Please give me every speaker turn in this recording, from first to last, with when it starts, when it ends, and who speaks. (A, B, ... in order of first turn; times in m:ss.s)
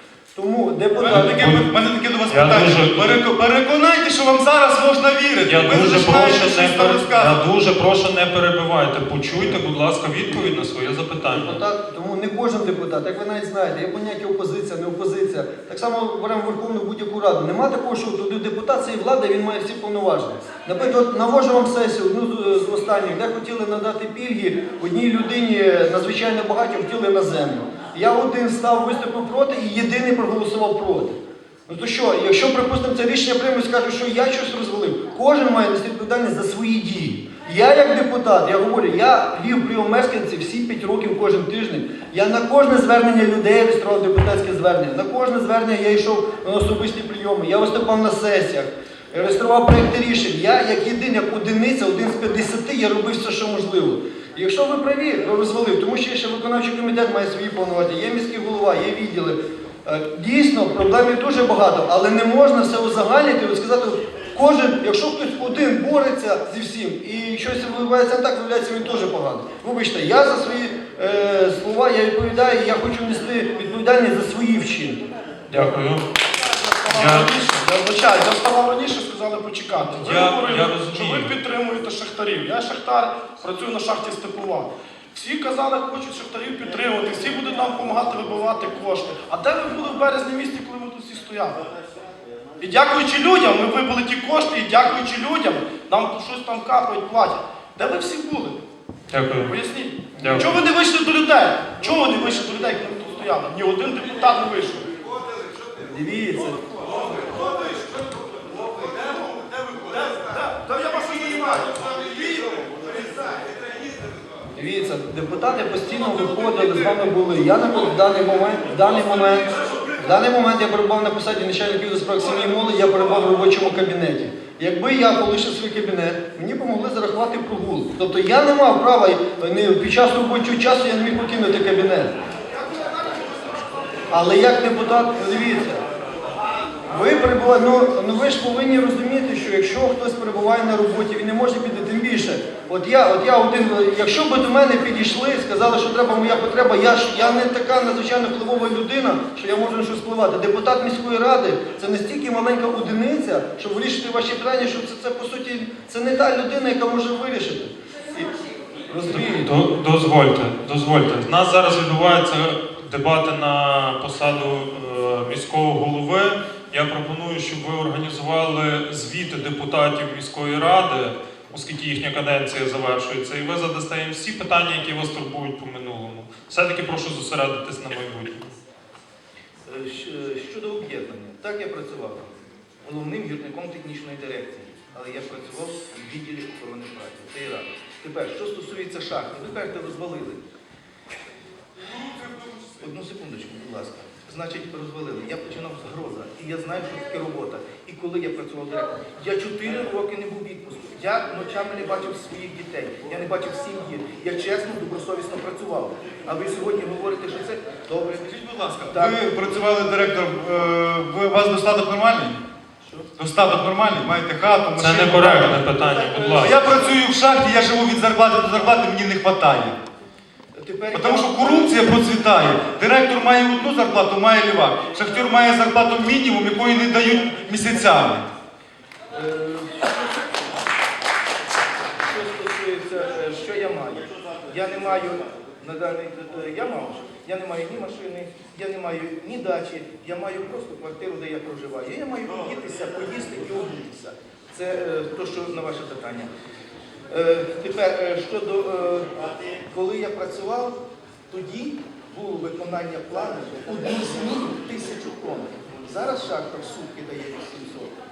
0:00.3-0:01.4 A
0:01.0-0:07.4 B
0:01.1-0:01.7 C
0:02.3-0:03.2 C
0:05.4-0:11.6 C
0:10.3-0:10.6 A
0:11.3-1:15.7 A
1:15.5-1:16.0 C
1:16.4-1:31.6 D
1:16.9-1:17.6 C
1:19.9-1:21.3 C
1:32.6-1:38.6 D
1:39.1-1:39.6 C
1:39.4-1:44.9 D
1:40.1-1:40.5 A
1:40.2-1:40.5 C
1:45.8-1:46.8 A
1:49.9-1:52.9 D
1:54.5-2:12.1 A
2:14.1-2:15.8 A
2:16.9-2:38.3 A
2:38.9-2:39.5 A
2:39.0-2:58.5 C
2:59.6-3:10.4 E
3:12.7-3:28.3 E
3:28.2-3:32.4 B
3:28.9-3:29.2 E
3:33.2-3:35.6 B
3:34.8-3:36.6 C
3:35.9-3:36.9 E
3:36.3-3:39.8 B
3:40.5-3:41.8 E
3:40.9-3:48.3 B
3:49.1-3:50.4 E
3:52.0-4:06.3 E
4:07.1-4:10.8 E
4:11.3-4:18.0 E